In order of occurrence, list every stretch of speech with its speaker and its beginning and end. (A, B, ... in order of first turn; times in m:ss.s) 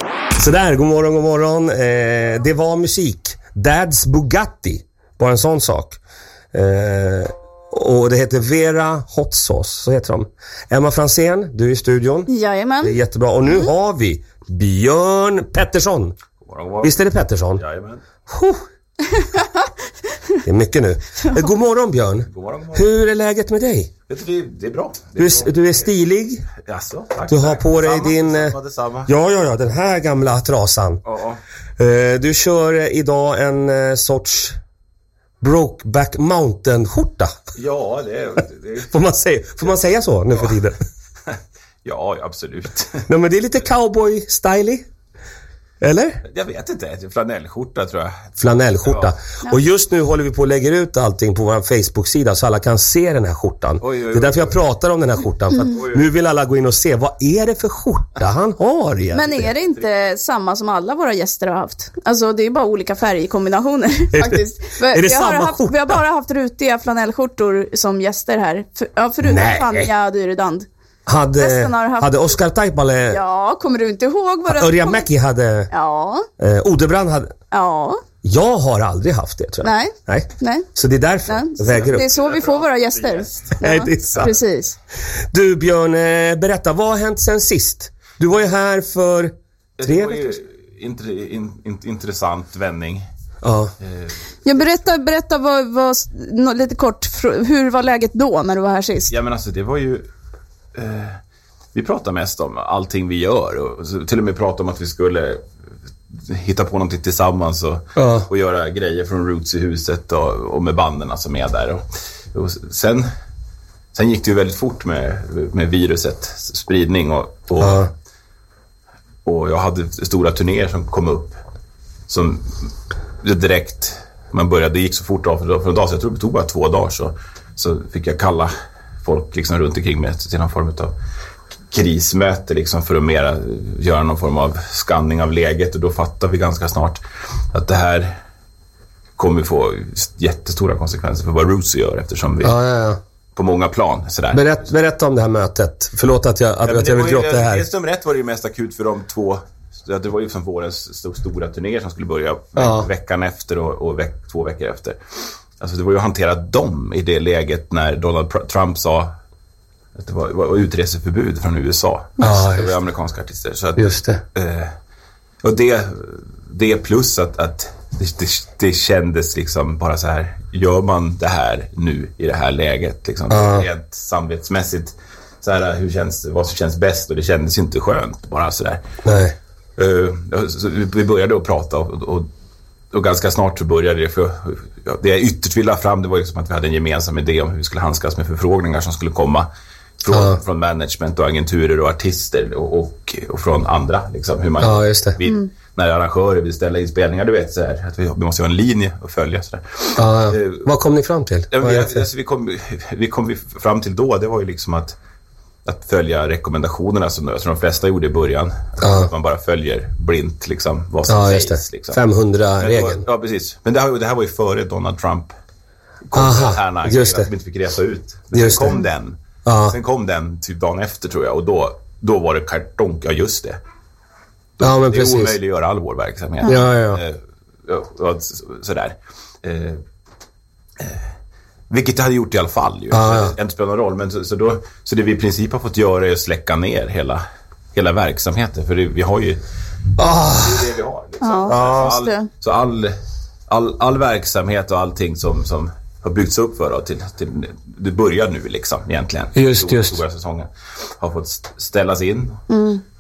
0:00.4-0:06.0 A
0:06.5-0:12.3 A
0:12.3-0:13.0 B
0:12.8-0:16.2 A
0:16.4-0:18.0 C
0:16.8-0:17.6 A
0:18.3-0:18.6 A
0:19.2-0:19.4 B
0:20.4-0:23.9 A
0:22.3-0:22.9 C
0:24.1-0:25.6 C
0:25.2-0:26.5 A
0:26.6-0:29.1 C
0:27.3-0:28.5 A
0:29.1-0:31.0 A
0:31.0-0:31.4 C
0:31.8-0:34.6 A
0:35.4-0:37.3 A
0:37.5-0:38.9 C
0:38.9-0:40.8 A
0:41.8-0:43.1 C
0:43.1-0:44.8 A
0:45.8-0:46.2 A
0:46.2-0:48.3 C
0:48.4-0:59.5 A
0:48.8-0:49.1 C
0:53.8-0:54.6 C
0:55.7-0:56.0 C
0:59.1-1:10.7 B
1:04.1-1:06.0 A
1:09.2-1:09.9 A
1:11.1-1:13.2 A
1:11.4-1:12.4 B
1:13.1-1:15.0 B
1:14.5-1:15.7 A
1:15.7-1:16.3 B
1:16.4-1:17.3 A
1:17.5-1:18.0 B
1:18.2-1:22.1 A
1:19.6-1:20.7 B
1:21.3-1:24.8 B
1:21.8-1:23.6 C
1:23.6-1:24.4 A
1:25.3-1:29.3 A
1:29.8-1:33.0 C
1:29.8-1:30.3 A
1:33.4-1:33.7 A
1:33.8-1:34.6 C
1:34.4-1:39.1 B
1:39.1-1:40.1 C
1:40.7-1:41.2 C
1:41.7-1:45.4 C
1:46.1-1:53.1 C
1:48.0-1:48.3 A
1:53.9-1:57.9 C
1:57.6-1:57.9 A
1:59.2-2:01.4 C
2:02.1-2:02.7 C
2:03.2-2:08.5 C
2:09.0-2:10.9 C
2:11.7-2:17.0 C
2:17.5-2:18.2 C
2:19.2-2:22.5 C
2:22.4-2:23.0 A
2:23.4-2:24.5 C
2:24.3-2:27.6 A
2:26.6-2:35.0 C
2:32.6-2:32.9 A
2:35.6-2:39.1 C
2:39.9-2:44.7 C
2:42.2-2:42.7 A
2:43.8-2:44.2 A
2:45.4-2:58.8 C
2:53.3-2:53.6 A
2:59.0-2:59.3 A
2:59.8-3:02.3 C
3:02.9-3:09.5 C
3:10.0-3:20.6 C
3:10.1-3:10.4 A
3:14.6-3:15.2 A
3:20.0-3:22.0 A
3:21.5-3:25.0 C
3:25.6-3:32.0 C
3:28.8-3:29.1 A
3:31.1-3:33.0 A
3:32.6-3:35.3 C
3:36.0-3:43.6 C
3:36.1-3:37.3 A
3:38.3-3:38.8 A
3:39.4-3:39.7 A
3:44.6-3:49.8 C
3:44.6-3:45.4 A
3:46.4-3:47.0 A
3:50.8-3:51.1 C
3:51.7-3:59.4 C
3:52.9-3:53.3 A
4:00.0-4:00.7 A
4:00.2-4:03.0 C
4:01.2-4:02.3 B
4:01.5-4:01.9 A
4:03.5-4:10.5 C
4:09.3-4:10.0 A
4:11.0-4:12.4 C
4:12.5-4:12.8 B